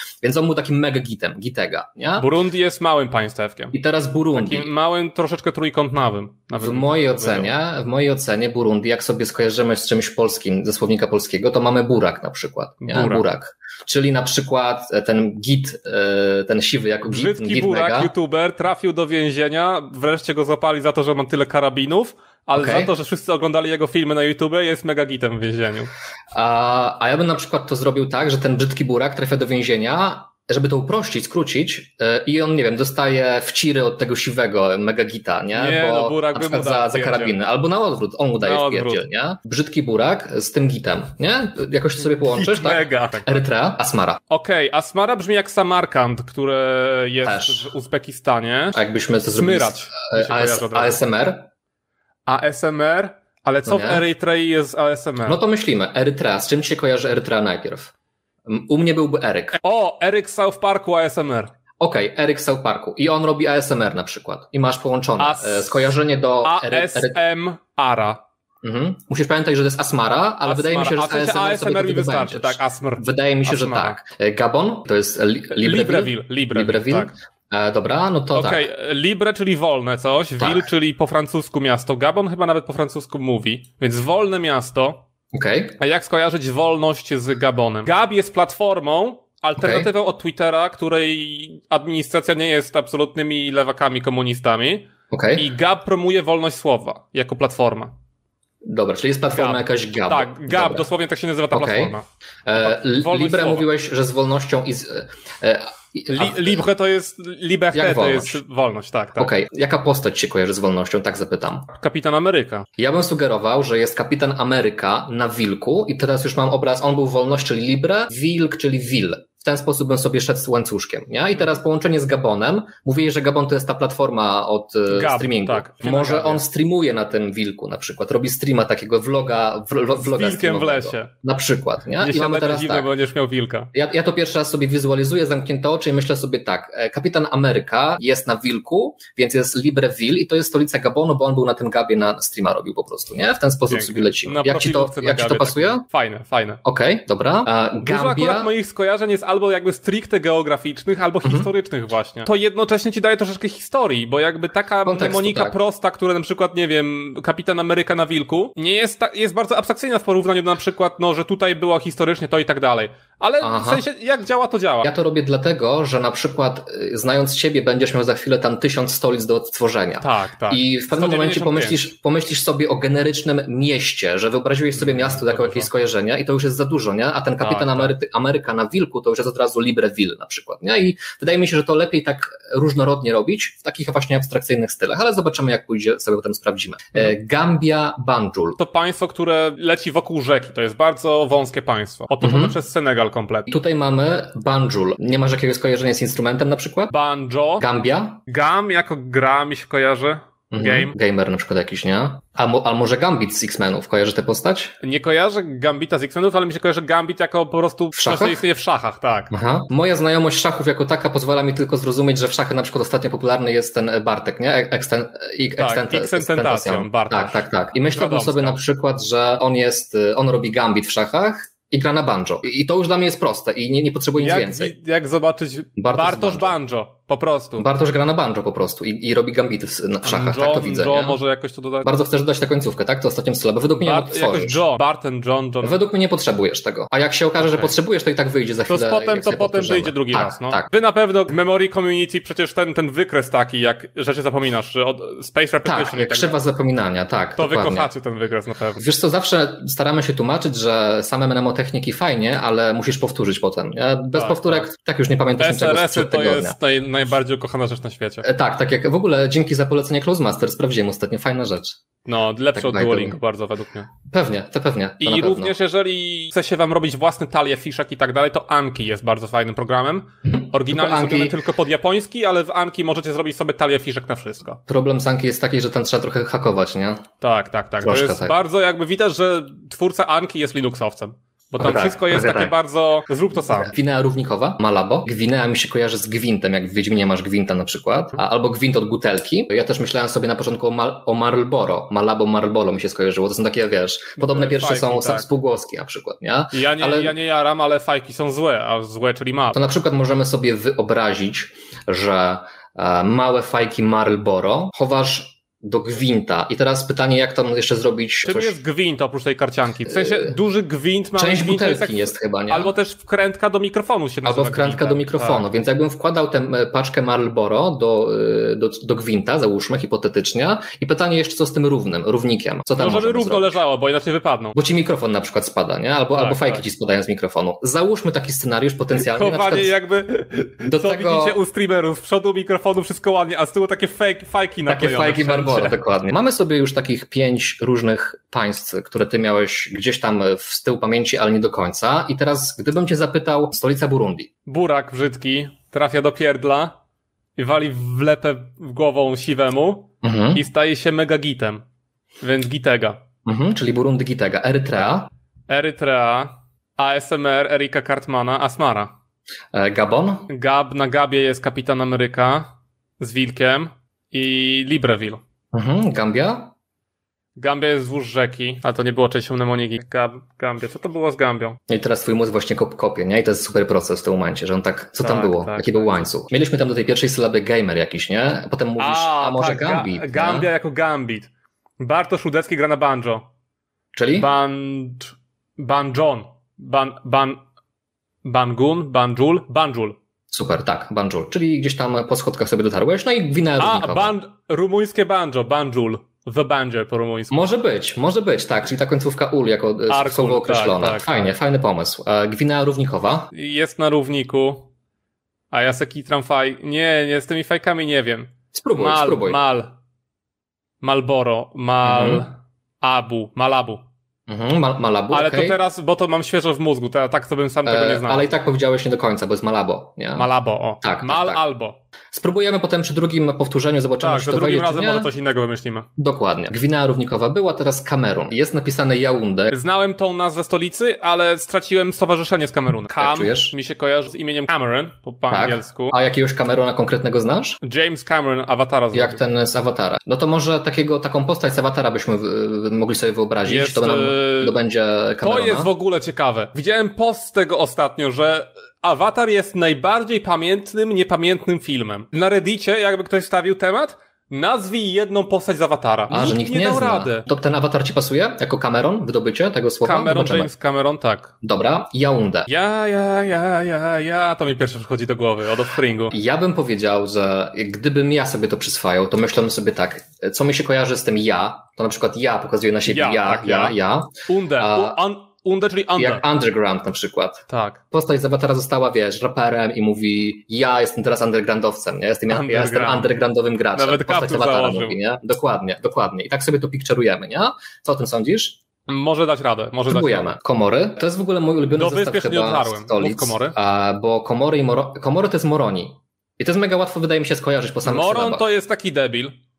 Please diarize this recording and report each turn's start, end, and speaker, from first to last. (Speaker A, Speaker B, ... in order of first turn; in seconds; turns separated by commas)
Speaker A: 0.2-2.3, Speaker B: 2.2-3.7, Speaker A: 3.7-4.7, Speaker B: 4.3-7.5, Speaker A: 6.6-18.1, Speaker B: 12.8-13.2, Speaker B: 17.1-25.9, Speaker A: 22.5-22.9, Speaker A: 26.3-44.2, Speaker B: 35.5-37.4, Speaker B: 38.4-39.0, Speaker B: 42.0-43.4, Speaker B: 44.3-48.8, Speaker A: 47.2-47.7, Speaker A: 48.7-51.5, Speaker B: 49.3-51.0, Speaker B: 52.2-55.4, Speaker A: 53.6-54.0, Speaker A: 55.2-57.9, Speaker A: 58.5-59.6, Speaker B: 59.6-61.5, Speaker A: 61.8-67.2, Speaker B: 65.2-68.2, Speaker A: 68.6-78.7, Speaker B: 70.4-74.0, Speaker B: 75.6-77.1, Speaker B: 78.3-85.0, Speaker A: 80.4-80.7, Speaker A: 85.3-85.8, Speaker B: 85.8-97.9, Speaker A: 89.6-89.9, Speaker A: 95.1-95.5, Speaker A: 98.6-100.9, Speaker B: 99.3-102.0, Speaker A: 101.5-101.9, Speaker A: 102.5-106.7, Speaker B: 102.6-103.7, Speaker B: 106.1-109.3, Speaker A: 107.7-108.4, Speaker A: 109.2-111.7, Speaker B: 111.7-112.7, Speaker A: 112.8-132.9, Speaker B: 124.9-126.4, Speaker B: 130.0-131.1, Speaker B: 132.0-133.7, Speaker A: 133.7-145.8, Speaker B: 143.7-146.6, Speaker A: 146.6-148.5, Speaker B: 147.8-164.9, Speaker A: 151.2-151.5, Speaker A: 154.8-155.5, Speaker A: 163.4-163.8, Speaker A: 164.8-188.6, Speaker B: 170.0-171.8, Speaker B: 174.7-175.7, Speaker B: 177.4-177.9, Speaker B: 188.6-193.5, Speaker A: 192.2-192.6, Speaker A: 193.5-196.9, Speaker B: 196.9-197.6, Speaker A: 197.6-198.2, Speaker B: 198.3-200.9, Speaker A: 200.5-204.7, Speaker B: 204.8-209.3, Speaker A: 207.9-208.4, Speaker A: 209.3-224.7, Speaker B: 215.6-218.6, Speaker B: 224.2-227.7, Speaker A: 225.8-226.5, Speaker A: 227.6-231.2, Speaker B: 230.0-231.9, Speaker A: 231.8-234.6, Speaker B: 233.8-235.8, Speaker A: 235.6-240.7, Speaker B: 237.4-237.7, Speaker B: 238.7-246.4, Speaker A: 245.6-247.9, Speaker B: 247.4-248.8, Speaker A: 248.8-256.6, Speaker B: 254.1-254.7, Speaker B: 255.4-258.2, Speaker A: 258.2-261.8, Speaker B: 262.0-263.9, Speaker A: 262.5-263.2, Speaker A: 264.1-265.5, Speaker B: 265.0-274.6, Speaker A: 270.2-271.4, Speaker A: 274.7-277.0, Speaker B: 277.2-283.7, Speaker A: 277.8-278.4, Speaker A: 281.6-282.5, Speaker A: 283.4-297.1, Speaker B: 294.2-295.3, Speaker B: 296.5-299.6, Speaker A: 299.5-308.6, Speaker B: 308.2-315.5, Speaker A: 309.9-310.4, Speaker A: 311.1-312.7, Speaker A: 314.2-323.6, Speaker B: 322.8-324.6, Speaker A: 324.6-329.7, Speaker B: 326.1-326.6, Speaker B: 328.9-335.8, Speaker A: 330.6-331.4, Speaker A: 334.6-344.3, Speaker B: 344.5-346.7, Speaker B: 347.4-351.6, Speaker A: 350.0-350.4, Speaker B: 352.2-353.0, Speaker A: 353.2-355.1, Speaker B: 355.5-358.9, Speaker A: 359.5-360.3, Speaker B: 360.3-365.2, Speaker A: 365.5-366.5, Speaker B: 367.4-371.6, Speaker A: 371.7-380.5, Speaker B: 375.0-376.0, Speaker B: 378.8-383.2, Speaker A: 383.9-384.3, Speaker B: 384.1-387.4, Speaker B: 388.2-389.9, Speaker A: 390.3-394.1, Speaker B: 393.6-397.4, Speaker A: 397.3-403.3, Speaker B: 399.9-401.2, Speaker B: 403.3-404.7, Speaker B: 405.5-409.7, Speaker A: 408.5-409.4, Speaker B: 410.8-413.8, Speaker A: 411.8-412.2, Speaker A: 414.3-415.6, Speaker B: 415.1-418.3, Speaker A: 417.6-420.3, Speaker B: 420.1-421.8, Speaker A: 420.8-421.4, Speaker A: 422.1-425.1, Speaker B: 424.0-425.9, Speaker A: 426.0-429.5, Speaker B: 429.5-435.9, Speaker A: 433.0-433.5, Speaker A: 435.3-437.6, Speaker B: 437.6-439.2, Speaker A: 438.9-445.7, Speaker B: 443.4-444.6, Speaker B: 445.2-457.2, Speaker A: 456.1-460.5, Speaker B: 459.8-461.3, Speaker A: 461.4-462.5, Speaker B: 462.5-466.1, Speaker A: 466.1-475.0, Speaker B: 472.9-476.2, Speaker A: 476.0-488.6, Speaker B: 477.5-477.8, Speaker B: 482.3-483.1, Speaker B: 483.7-485.0, Speaker B: 488.9-490.4, Speaker A: 489.9-498.5, Speaker B: 491.7-493.6, Speaker B: 497.8-499.3